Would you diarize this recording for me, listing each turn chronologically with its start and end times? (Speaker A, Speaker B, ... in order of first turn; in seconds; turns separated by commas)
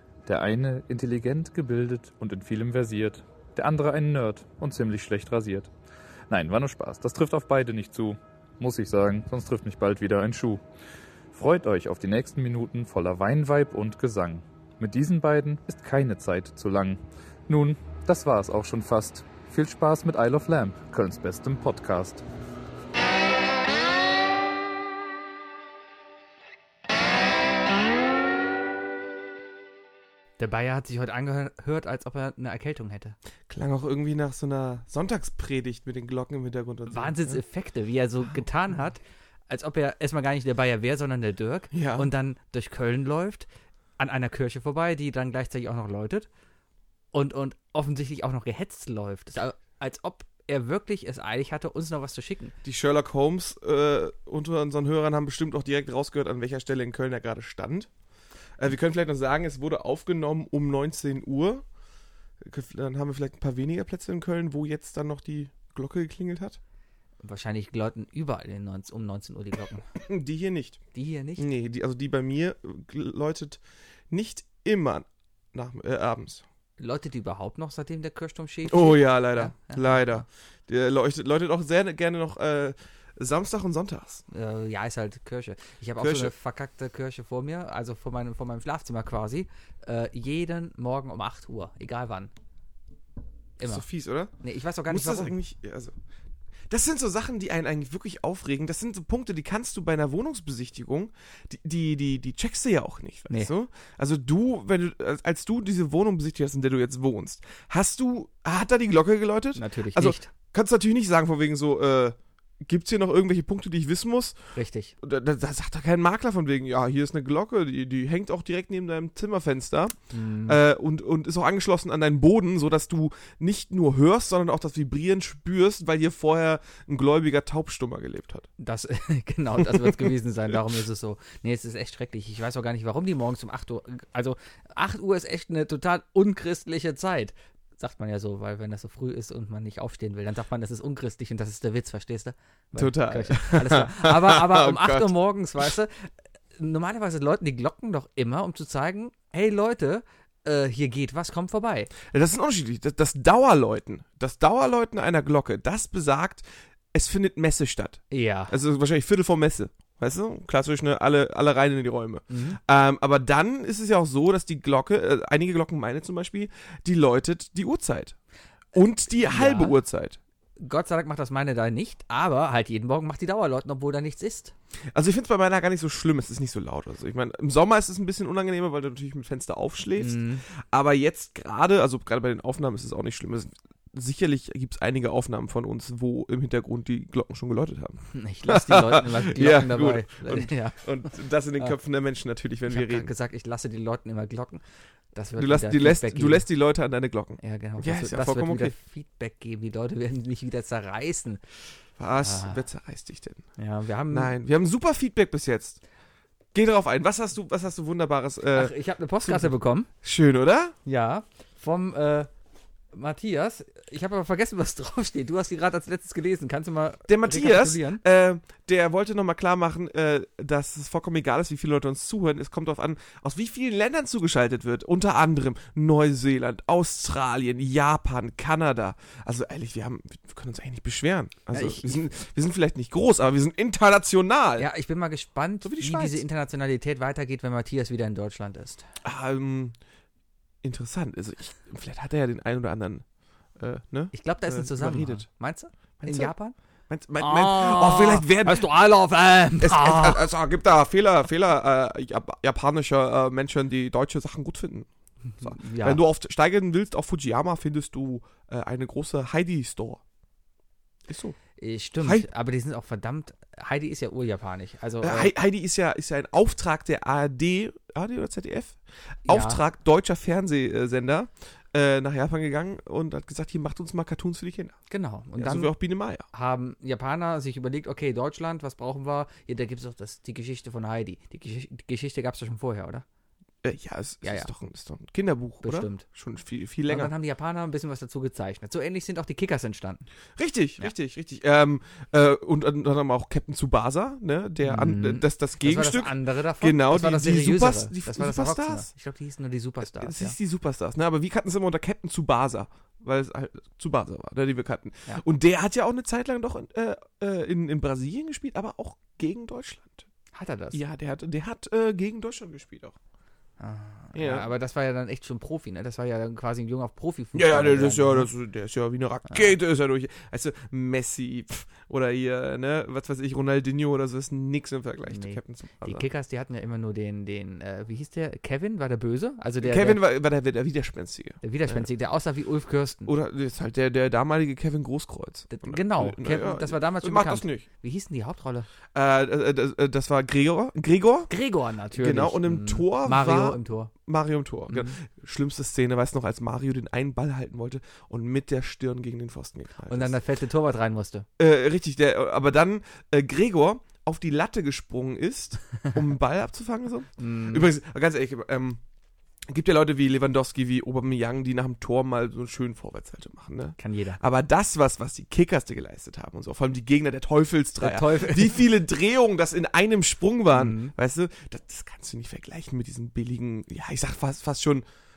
Speaker A: 0.2-5.7, Speaker A: 6.3-10.6, Speaker A: 11.3-22.2, Speaker B: 30.4-33.2, Speaker C: 33.5-37.4, Speaker B: 36.9-43.5, Speaker C: 41.7-42.1, Speaker B: 44.0-46.3, Speaker B: 47.1-52.5, Speaker C: 52.6-57.9, Speaker C: 58.6-61.6, Speaker C: 62.4-66.6, Speaker B: 67.2-69.9, Speaker C: 70.0-70.8, Speaker B: 70.9-71.4, Speaker C: 71.4-76.4, Speaker B: 76.8-80.2, Speaker C: 78.7-84.2, Speaker B: 84.3-92.3, Speaker C: 86.0-86.3, Speaker C: 93.6-94.3, Speaker B: 94.4-95.3, Speaker C: 94.9-95.9, Speaker C: 96.7-114.4, Speaker B: 109.5-110.3, Speaker B: 114.5-114.9, Speaker C: 115.0-119.9, Speaker B: 120.1-120.6, Speaker C: 120.5-128.5, Speaker B: 128.6-151.9, Speaker C: 129.6-130.1, Speaker C: 142.8-145.1, Speaker C: 152.1-168.2, Speaker B: 158.1-158.5, Speaker B: 162.3-162.6, Speaker C: 168.7-170.2, Speaker B: 169.2-169.8, Speaker B: 170.6-174.5, Speaker C: 174.9-193.1, Speaker B: 180.0-180.4, Speaker B: 188.1-190.8, Speaker B: 192.7-194.6, Speaker B: 195.1-196.4, Speaker C: 195.4-198.7, Speaker B: 197.4-201.4, Speaker C: 202.0-203.4, Speaker B: 202.2-202.6, Speaker B: 203.6-204.3, Speaker C: 204.1-205.8, Speaker C: 206.5-210.8, Speaker B: 208.5-209.9, Speaker B: 210.8-212.3, Speaker B: 212.9-218.0, Speaker C: 217.1-234.7, Speaker B: 231.5-232.0, Speaker B: 234.6-238.8, Speaker C: 235.6-236.2, Speaker C: 239.0-239.8, Speaker C: 240.6-243.0, Speaker C: 243.6-245.2, Speaker B: 244.1-246.5, Speaker C: 246.0-246.3, Speaker C: 246.9-248.7, Speaker B: 247.2-250.3, Speaker C: 249.6-254.9, Speaker B: 255.4-256.0, Speaker C: 255.4-260.0, Speaker C: 261.1-261.4, Speaker B: 261.6-265.3, Speaker C: 262.0-262.3, Speaker C: 265.0-274.8, Speaker B: 269.2-269.6, Speaker B: 274.9-275.8, Speaker C: 275.4-276.2, Speaker B: 276.3-283.1, Speaker C: 283.6-287.1, Speaker B: 284.2-284.5, Speaker B: 285.6-286.1, Speaker B: 286.9-290.1, Speaker C: 290.4-298.9, Speaker B: 294.6-300.4, Speaker C: 299.8-310.1, Speaker B: 310.3-310.8, Speaker C: 310.7-312.9, Speaker B: 313.6-318.3, Speaker C: 314.1-314.5, Speaker C: 317.4-326.0, Speaker B: 325.1-330.0, Speaker C: 329.6-331.9, Speaker B: 331.4-333.1, Speaker C: 333.1-337.6, Speaker B: 335.5-338.7, Speaker C: 338.9-341.3, Speaker B: 341.3-343.9, Speaker C: 342.0-350.1, Speaker B: 344.7-344.9, Speaker B: 349.9-351.2, Speaker C: 351.4-358.8, Speaker B: 357.2-357.7, Speaker C: 359.5-374.9, Speaker B: 363.8-364.2, Speaker B: 367.8-368.6, Speaker B: 370.5-370.9